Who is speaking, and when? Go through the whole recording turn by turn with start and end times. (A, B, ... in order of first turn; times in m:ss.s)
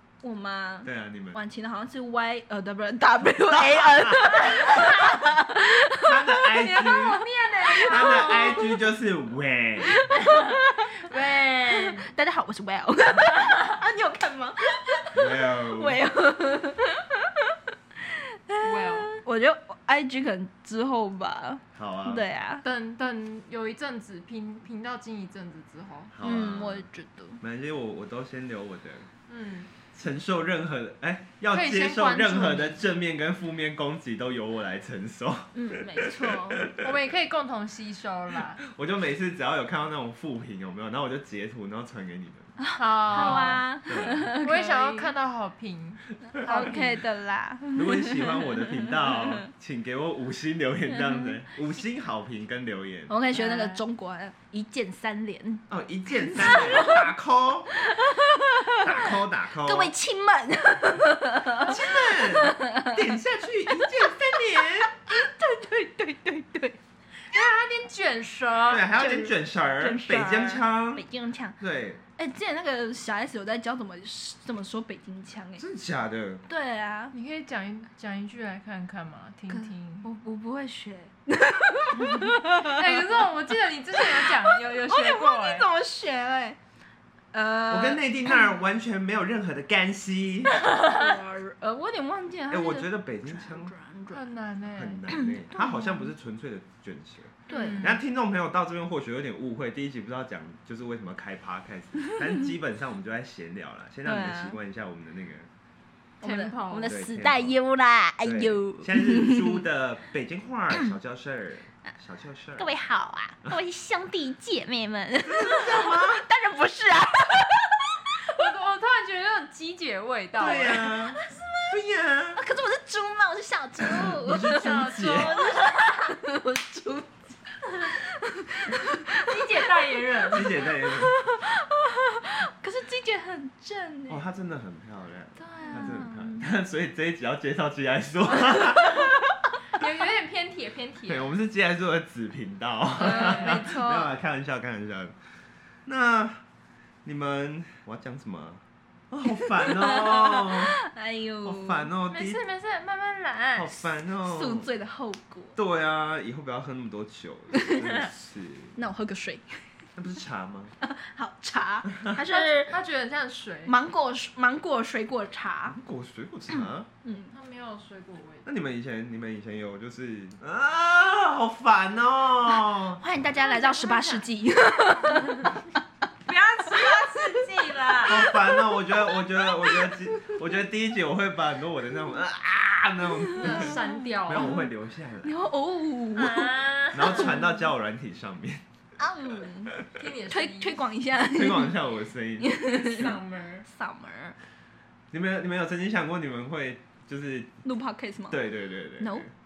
0:00.2-0:08.7 A
0:00.8-0:01.4 B
0:03.5-0:04.7 B
0:06.0-0:10.0 B
0:06.5-0:08.7 C
0:09.9-0:10.9 A
0:11.0-0:12.1 C
0:11.7-0:17.3 A
0:15.2-0:16.0 B
0:18.5-0:22.6 A
0:18.6-0:19.1 C
0:21.8-0:22.2 B
0:22.6-0:26.1 C
0:26.1-0:26.9 B
0:26.2-0:27.4 A
0:27.4-0:29.1 B
0:29.3-0:29.7 C
0:29.9-0:36.9 B
0:31.5-0:32.8 C
0:35.6-0:36.7 A
0:36.8-0:38.6 C
0:38.6-0:42.5 B
0:42.6-0:45.1 A
0:42.8-0:43.7 C
0:43.1-0:44.3 B
0:44.4-0:47.0 C
0:46.4-0:49.2 A
0:47.8-0:53.1 B
0:50.9-0:51.4 A
0:53.1-0:55.7 A
0:53.3-0:53.8 C
0:55.7-0:57.7 B
0:56.2-0:57.1 A
0:57.8-0:59.1 A
0:58.8-0:59.9 B
0:59.6-1:02.9 A
1:01.6-1:04.9 B
1:03.7-1:06.8 A
1:07.3-1:09.0 C
1:08.7-1:11.0 B
1:09.0-1:11.6 A
1:11.6-1:12.0 B
1:12.2-1:15.6 A
1:15.6-1:16.4 B
1:16.5-1:17.2 A
1:17.1-1:20.1 C
1:19.5-1:22.8 A
1:22.0-1:25.7 C
1:24.0-1:26.6 A
1:27.3-1:28.4 A
1:27.7-1:30.6 B
1:30.6-1:34.3 A
1:32.5-1:33.7 B
1:34.1-1:35.9 C
1:34.7-1:45.5 B
1:37.5-1:37.9 A
1:37.5-1:38.0 C
1:44.0-1:44.6 A
1:46.2-1:46.9 C
1:46.2-1:49.6 A
1:46.9-1:47.6 B
1:48.2-1:52.7 B
1:50.7-1:51.0 A
1:52.6-1:57.8 A
1:55.2-1:56.2 B
1:58.2-2:01.2 C
2:00.4-2:02.4 B
2:02.4-2:09.6 A
2:03.8-2:05.4 B
2:04.3-2:06.0 C
2:09.1-2:10.7 C
2:10.3-2:11.2 B
2:11.1-2:14.2 A
2:14.1-2:19.2 B
2:15.4-2:16.5 A
2:15.6-2:16.4 C
2:19.7-2:21.3 C
2:21.0-2:25.1 B
2:23.0-2:23.8 C
2:23.0-2:24.1 A
2:25.9-2:26.4 B
2:27.0-2:30.8 B
2:29.6-2:31.9 A
2:31.4-2:32.4 B
2:32.1-2:33.8 C
2:33.6-2:34.7 B
2:34.2-2:35.6 A
2:35.6-2:38.8 B
2:37.6-2:38.0 A
2:38.8-2:39.7 A
2:40.0-2:40.8 B
2:40.8-2:42.8 A
2:42.2-2:43.7 C
2:43.6-2:45.8 A
2:45.7-2:46.9 B
2:46.5-2:47.3 A
2:47.3-2:48.5 C
2:48.4-2:53.0 B
2:53.0-2:55.6 A
2:53.3-2:54.3 C
2:56.2-2:58.4 C
2:58.0-3:05.4 B
2:58.1-2:58.3 A
2:59.4-2:59.9 A
3:03.3-3:04.6 A
3:03.4-3:04.6 C
3:05.2-3:07.3 A
3:06.2-3:07.5 C
3:06.9-3:08.6 B
3:09.0-3:09.7 A
3:10.0-3:10.9 C
3:10.3-3:11.9 A
3:11.3-3:13.1 B
3:12.4-3:14.4 A
3:12.7-3:13.7 C
3:15.1-3:17.6 B
3:17.6-3:18.4 A
3:18.3-3:19.3 B
3:19.0-3:19.2 A